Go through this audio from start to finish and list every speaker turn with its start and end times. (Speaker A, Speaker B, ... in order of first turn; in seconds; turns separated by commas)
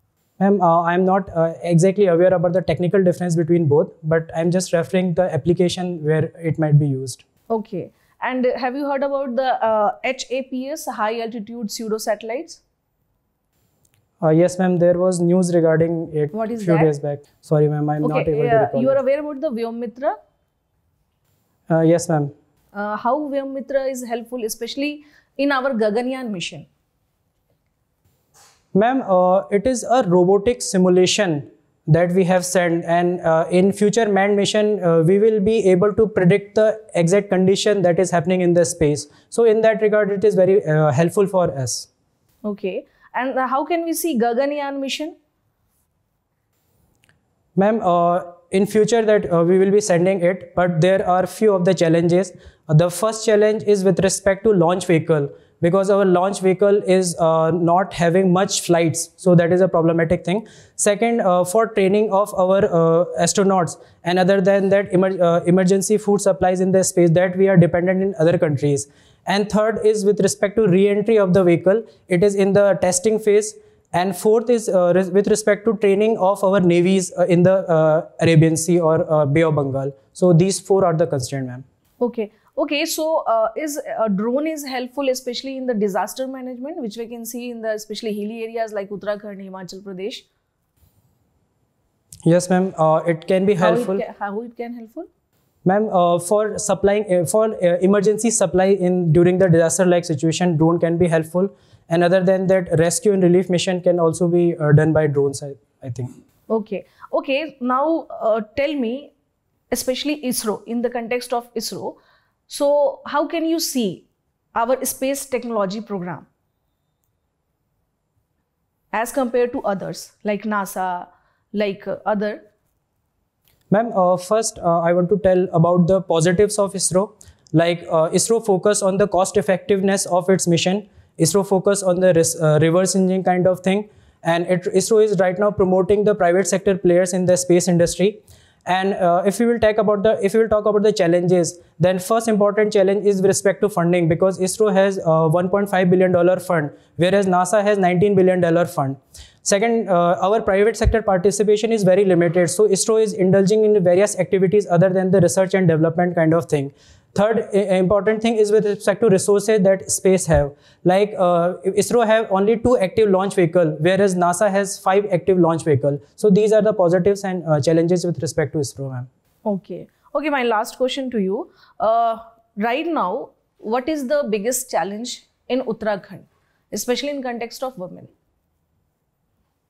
Speaker A: 0.4-7.2, Speaker B: 7.5-12.6, Speaker A: 14.2-19.0, Speaker B: 16.3-16.9, Speaker B: 18.0-20.2, Speaker A: 21.7-22.3, Speaker B: 22.7-26.7, Speaker A: 28.7-41.9, Speaker B: 42.4-45.1, Speaker A: 47.6-81.6, Speaker B: 82.0-90.3, Speaker A: 92.2-94.0, Speaker B: 93.6-95.1, Speaker A: 95.6-106.1, Speaker B: 106.5-109.1, Speaker B: 109.7-112.0, Speaker B: 112.5-116.3, Speaker B: 118.9-122.4, Speaker A: 123.7-169.1, Speaker B: 169.5-178.1